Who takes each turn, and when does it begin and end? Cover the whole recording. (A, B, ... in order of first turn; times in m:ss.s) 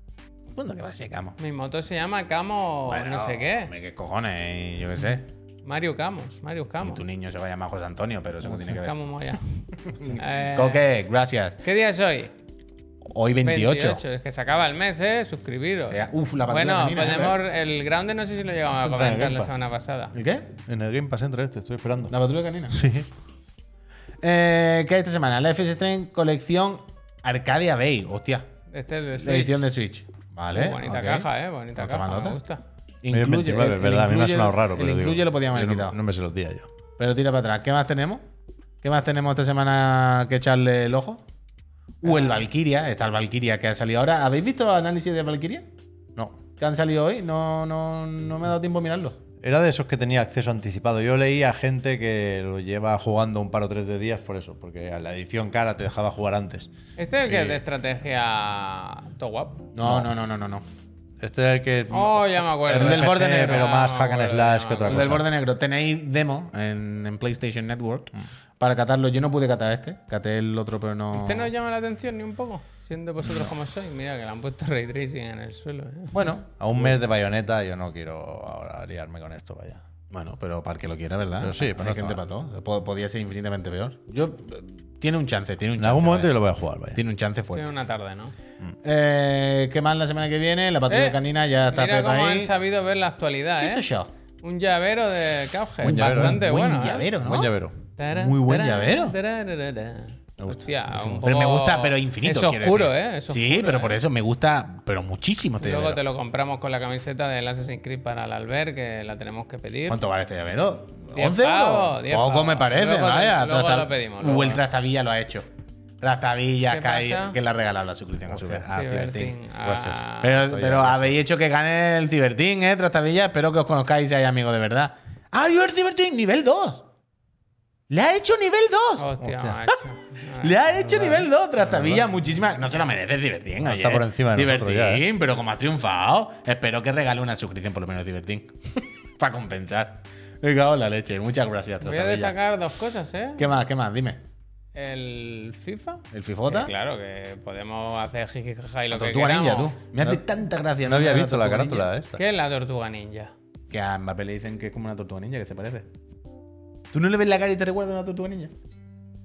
0:00.5-0:01.4 A
0:01.4-0:03.7 B
0:02.9-0:05.2 A
0:05.6-0:07.0 B
0:06.8-0:08.9 A
0:08.5-0:09.4 B
0:09.9-0:11.6 A
0:10.0-0:10.8 B
0:11.6-0:12.3 B
0:13.1-0:14.0 A
0:13.4-0:20.1 B
0:15.9-0:17.4 A
0:18.8-0:19.5 C
0:20.1-0:20.5 A
0:20.7-0:22.1 C
0:22.1-0:22.9 A
0:22.7-0:23.1 C
0:24.2-0:28.5 A
0:28.7-0:29.6 B
0:29.2-0:32.4 A
0:30.5-0:32.6 B
0:33.0-0:36.0 A
0:33.1-0:36.7 C
0:37.0-0:38.2 A
0:38.8-0:41.2 A
0:42.0-0:45.6 A
0:42.0-0:42.4 B
0:46.6-0:49.2 A
0:49.4-0:56.7 C
0:57.0-0:59.6 B
0:57.3-0:57.6 C
0:59.7-1:00.6 A
0:59.8-1:00.1 C
1:01.2-1:05.3 C
1:01.9-1:05.2 B
1:02.7-1:03.8 A
1:04.8-1:11.5 A
1:11.1-1:16.2 B
1:16.1-1:16.5 A
1:16.6-1:19.8 C
1:20.1-1:26.4 A
1:21.4-1:22.2 C
1:25.8-1:27.0 C
1:26.9-1:27.7 A
1:27.5-1:28.3 B
1:28.8-1:32.5 A
1:30.9-1:31.2 B
1:31.7-1:33.8 B
1:33.6-1:34.1 A
1:34.4-1:37.1 B
1:35.8-1:36.4 C
1:35.8-1:37.5 A
1:37.2-1:38.6 C
1:38.0-1:44.0 B
1:38.4-1:39.2 A
1:40.4-1:41.0 C
1:40.9-1:46.0 A
1:45.6-1:50.0 B
1:49.9-1:55.5 A
1:51.1-1:54.6 B
1:56.0-2:06.8 A
1:56.7-1:57.4 B
1:58.3-1:58.7 C
1:58.7-2:00.4 B
2:00.4-2:01.2 C
2:07.9-2:09.1 A
2:09.0-2:10.8 B
2:09.2-2:09.6 C
2:10.4-2:22.4 A
2:10.9-2:12.0 C
2:13.6-2:15.0 C
2:21.8-2:23.5 B
2:23.4-2:24.2 A
2:24.7-2:29.8 B
2:26.1-2:26.7 A
2:28.9-2:31.9 A
2:30.8-2:32.2 C
2:32.2-2:33.3 B
2:33.7-2:35.8 A
2:36.9-2:38.5 A